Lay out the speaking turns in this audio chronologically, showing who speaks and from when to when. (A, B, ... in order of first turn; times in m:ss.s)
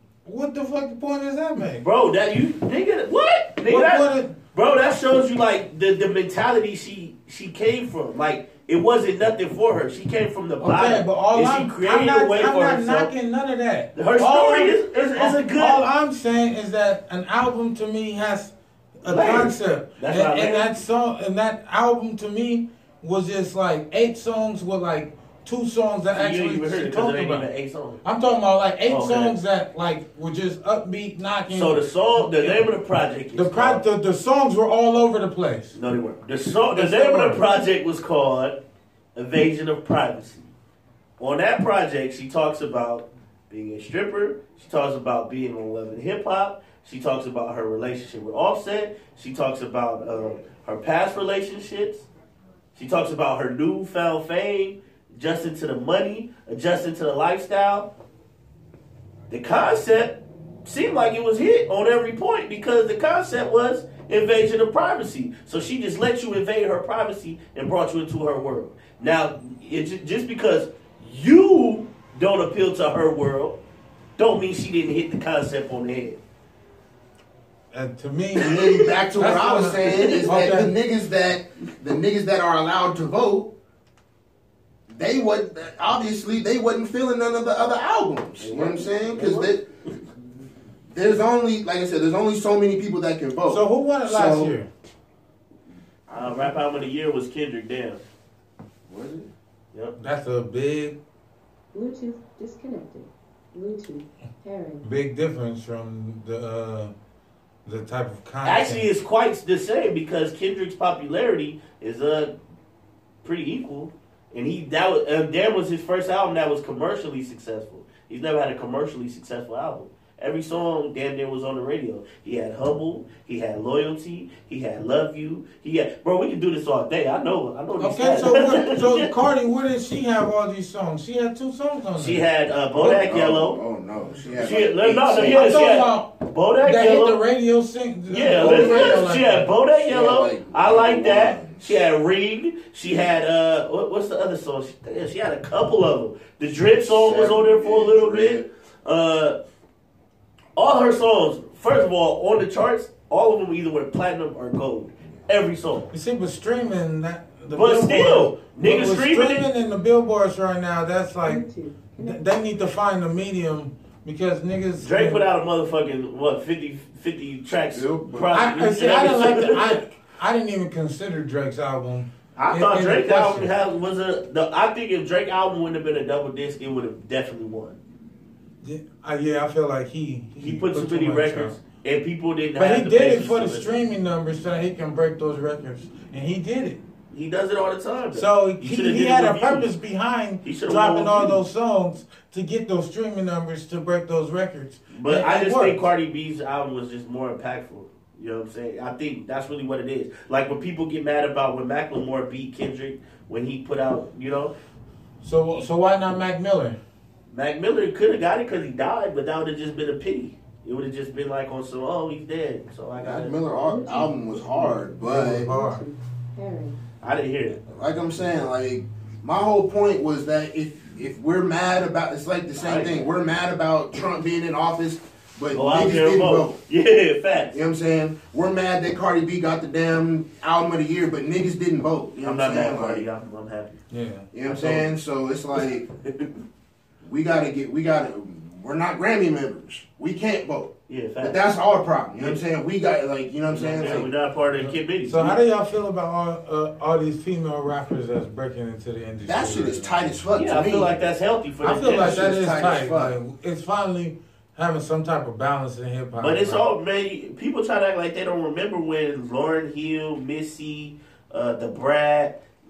0:00.2-0:01.8 A
0:01.8-0:13.1 B
0:03.7-0:04.4 A
0:10.6-0:27.5 A
0:14.0-0:15.8 B
0:19.1-0:20.7 B
0:26.1-0:28.0 B
0:28.0-0:32.7 A
0:28.9-0:29.4 B
0:31.5-0:33.8 B
0:33.3-0:35.8 A
0:35.7-0:38.6 B
0:36.7-0:37.4 A
0:39.2-0:40.5 B
0:41.2-0:52.1 B
0:52.8-0:57.9 B
0:59.3-1:13.6 B
1:14.2-1:16.2 B
1:17.7-1:20.7 A
1:18.4-1:23.5 C
1:24.9-1:29.7 C
1:28.4-1:29.6 B
1:30.9-1:34.6 C
1:33.5-1:34.7 A
1:36.1-1:38.0 B
1:36.1-1:36.4 C
1:38.9-1:39.3 C
1:40.0-1:41.0 A
1:41.7-1:44.8 D
1:44.8-1:46.9 A
1:47.6-1:48.9 A
1:48.4-1:52.3 B
1:53.2-2:09.1 B
2:07.8-2:12.2 A
2:12.0-2:13.6 B
2:12.8-2:13.0 A
2:12.8-2:15.6 C
2:14.4-2:17.2 B
2:15.3-2:19.5 A
2:18.1-2:29.4 B
2:18.4-2:19.1 C
2:19.7-2:21.8 C
2:26.6-2:28.5 C
2:30.6-2:35.9 B
2:35.9-2:41.4 A
2:37.5-2:39.5 B
2:41.3-2:42.3 D
2:42.0-2:45.2 A
2:44.8-2:49.8 B
2:47.7-2:48.4 C
2:48.3-2:53.5 A
2:52.4-2:57.8 B
2:58.6-3:01.6 A
3:00.4-3:03.7 B
3:02.6-3:06.8 A
3:07.1-3:09.7 B
3:08.1-3:15.8 A
3:10.4-3:11.4 B
3:14.9-3:24.5 B
3:25.2-3:26.8 A
3:27.3-3:33.4 B
3:33.0-3:35.5 C
3:33.6-3:36.8 D
3:35.0-3:35.8 A
3:37.0-3:37.6 B
3:37.7-3:46.6 C
3:42.6-3:43.0 B
3:45.5-3:47.6 B
3:47.5-3:53.1 C
3:52.2-3:53.8 B
3:53.9-3:54.3 A
3:54.3-3:55.9 C
3:54.5-3:54.8 B
3:57.0-4:04.1 C
4:00.9-4:01.4 B
4:03.5-4:05.4 B
4:04.6-4:10.0 A
4:09.2-4:11.0 C
4:10.4-4:12.3 B
4:11.6-4:16.7 A
4:11.8-4:13.1 C
4:16.2-4:22.4 B